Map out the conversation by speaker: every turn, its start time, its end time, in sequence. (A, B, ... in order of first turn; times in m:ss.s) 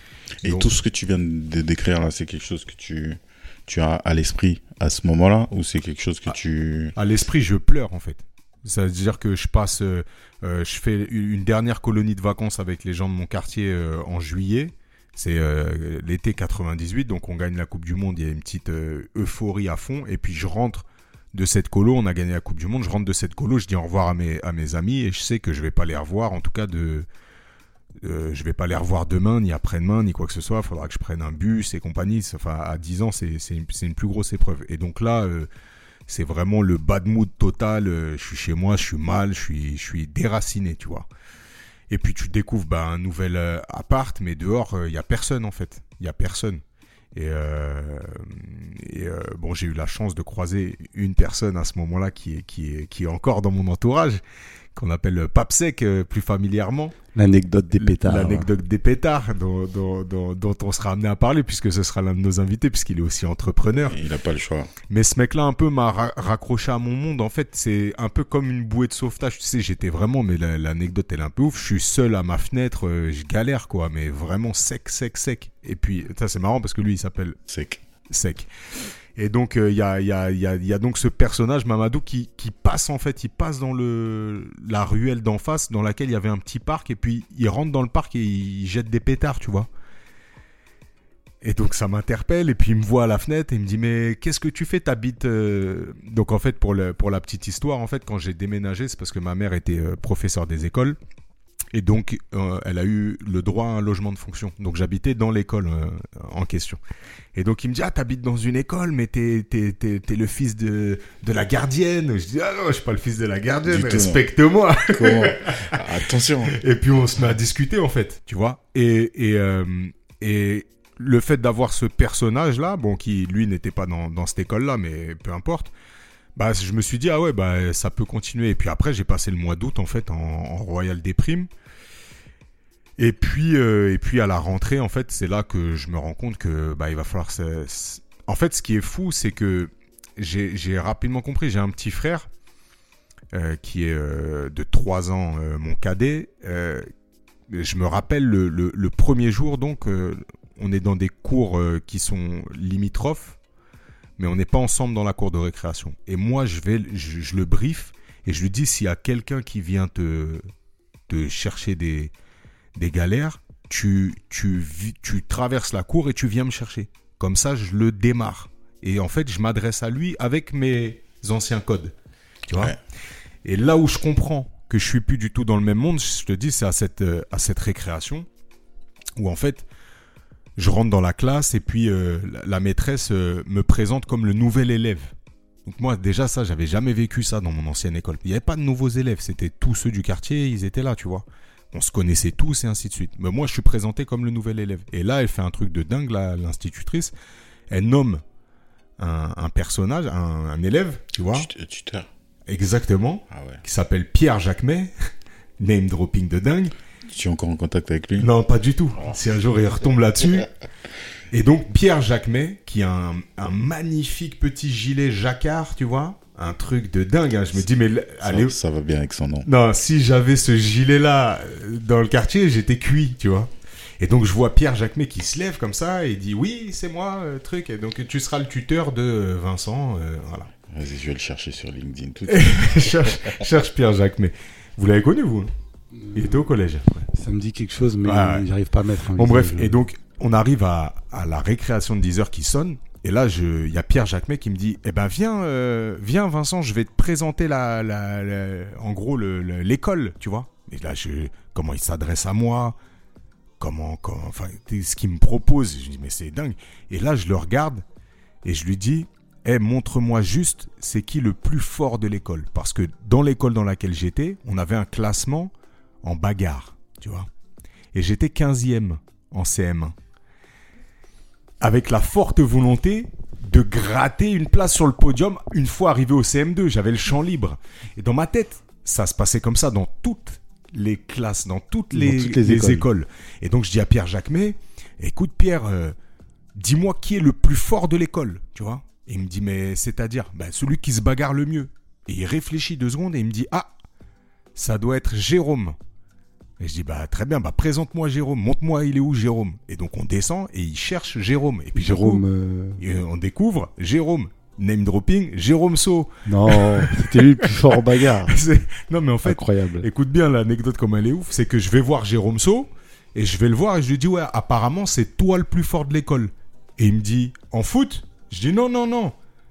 0:00.4-0:00.7 A
0:00.4-0:07.0 B
0:07.0-0:27.1 A
0:28.0-0:35.5 A
0:36.1-0:41.1 A
0:41.9-0:46.6 A
0:47.1-0:54.2 A
0:54.8-0:57.0 A
0:57.2-0:58.5 C
0:57.8-1:04.0 A
1:03.8-1:04.7 B
1:04.9-1:17.4 A
1:17.5-1:17.8 B
1:18.1-1:18.5 A
1:19.2-1:29.7 A
1:31.4-1:41.0 A
1:41.7-1:46.8 A
1:47.4-1:55.8 A
1:53.7-1:54.2 B
1:54.8-1:56.6 B
1:56.5-2:05.7 A
2:06.4-2:11.5 A
2:13.0-2:22.3 A
2:23.3-2:26.9 A
2:27.5-2:33.4 A
2:34.2-2:40.5 A
2:41.1-2:42.1 A
2:42.8-2:51.9 A
2:52.5-2:52.8 A
2:52.5-2:52.8 B
2:53.4-2:58.3 A
2:59.2-2:59.7 A
3:00.6-3:05.1 A
3:05.6-3:17.1 A
3:17.7-3:18.2 A
3:19.0-3:21.5 A
3:21.3-3:22.1 B
3:22.5-3:24.9 A
3:23.3-3:23.6 B
3:25.6-3:26.7 A
3:27.1-3:28.3 B
3:28.2-3:30.5 A
3:31.3-3:38.5 A
3:38.2-3:39.5 B
3:39.4-3:50.5 A
3:50.7-3:53.4 B
3:52.3-3:55.5 A
3:56.1-3:57.1 A
3:57.1-3:59.8 C
3:58.0-3:58.5 A
3:59.2-4:12.8 A
4:13.6-4:17.8 A
4:18.4-4:25.5 A
4:26.0-4:27.3 A
4:27.9-4:30.0 A
4:31.6-4:46.0 A
4:41.9-4:42.9 C
4:46.6-4:53.7 A
4:54.6-4:55.8 A
4:56.6-5:02.2 A
5:01.8-5:02.8 C
5:02.8-5:19.2 A
5:06.3-5:08.4 C
5:09.2-5:09.9 C